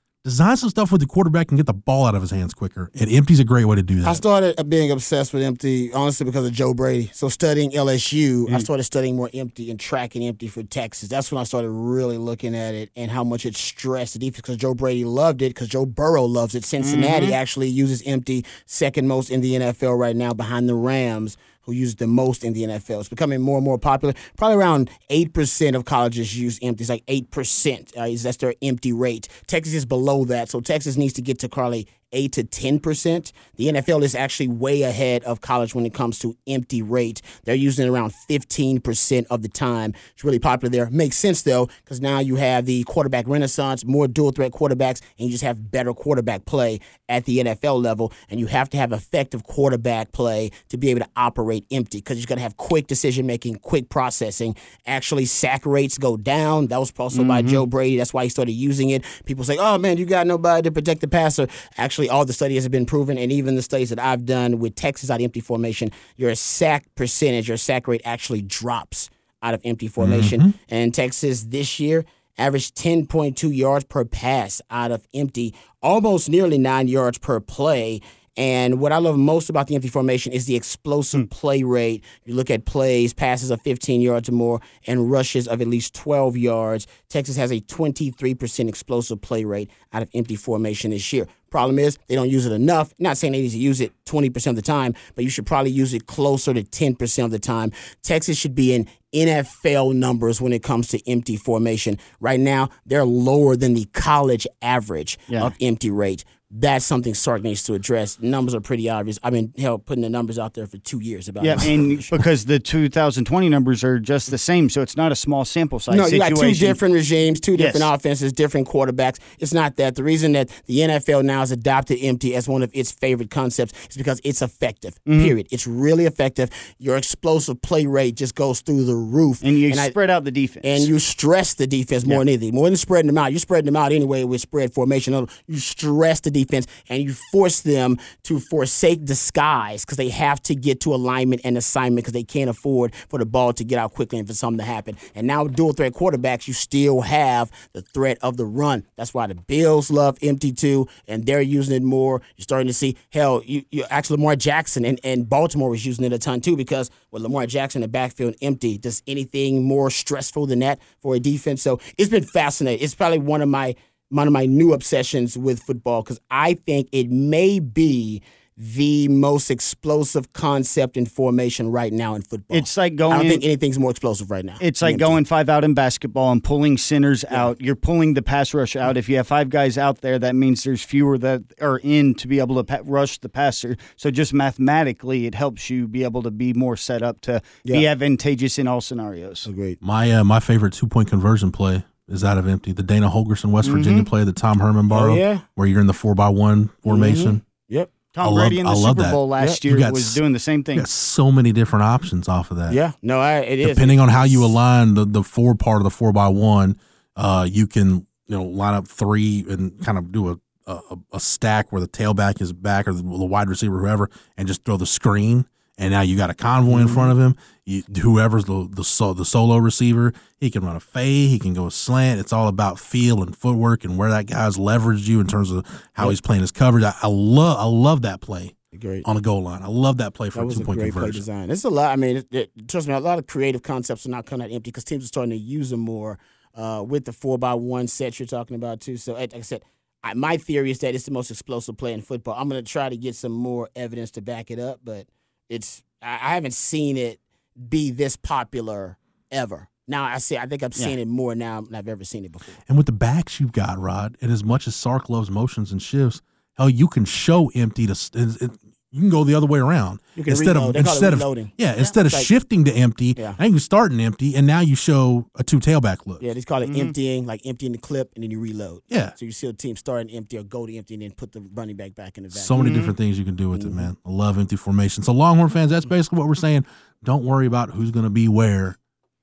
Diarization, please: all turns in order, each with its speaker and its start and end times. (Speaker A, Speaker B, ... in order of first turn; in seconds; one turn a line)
Speaker A: 0.2-4.2
Speaker B: 4.0-112.1
Speaker C: 16.8-17.4
Speaker C: 57.1-57.6
Speaker A: 70.0-70.5
Speaker C: 111.4-116.8
Speaker B: 115.9-129.9
Speaker C: 117.6-117.9
Speaker C: 125.1-125.3
Speaker C: 129.4-130.9
Speaker B: 130.6-175.2
Speaker C: 172.5-173.4
Speaker C: 174.6-189.5
Speaker B: 189.4-189.8
Speaker A: 189.8-197.4
Speaker C: 193.6-194.1
Speaker B: 194.9-195.4
Speaker B: 196.9-197.9
Speaker C: 198.1-200.8
Speaker A: 198.2-200.2
Speaker A: 200.7-202.8
Speaker B: 202.7-204.5
Speaker A: 203.6-231.2
Speaker B: 216.7-217.1
Speaker B: 228.7-229.1
Speaker B: 230.3-252.6
Speaker A: 252.7-266.2
Speaker B: 260.1-261.5
Speaker B: 262.0-262.3
Speaker B: 266.2-272.8
Speaker C: 266.6-266.9
Speaker A: 268.9-269.1
Speaker A: 272.3-278.8
Speaker C: 272.6-272.9
Speaker B: 273.5-273.9